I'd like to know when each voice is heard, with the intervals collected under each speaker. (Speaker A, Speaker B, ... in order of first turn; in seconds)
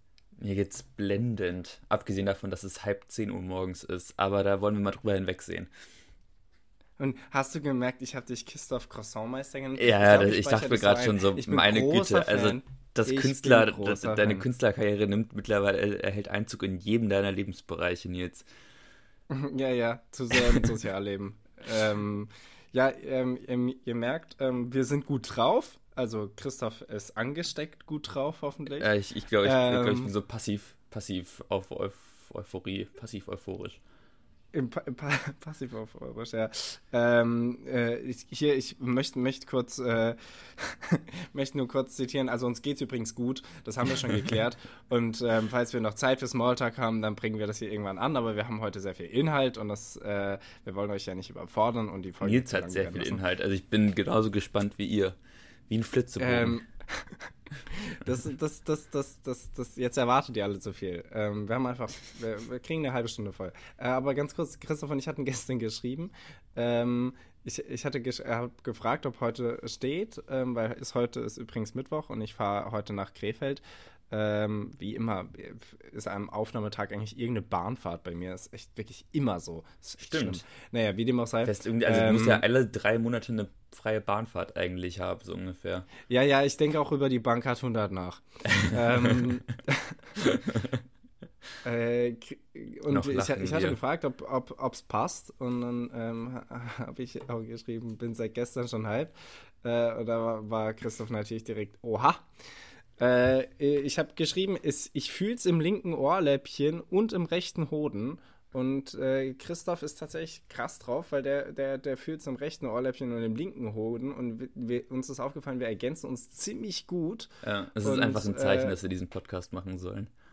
Speaker A: 0.4-5.7, 9.8-18.5, 28.8-33.8, 52.2-55.2, 55.7-56.6, 80.0-80.4, 81.4-85.9, 88.5-89.2, 90.3-90.8, 92.9-93.8, 117.4-120.1
Speaker B: 7.0-14.5, 19.3-28.9, 29.4-30.1, 34.5-53.2, 56.2-82.4, 86.1-90.4, 91.6-102.3, 103.0-118.8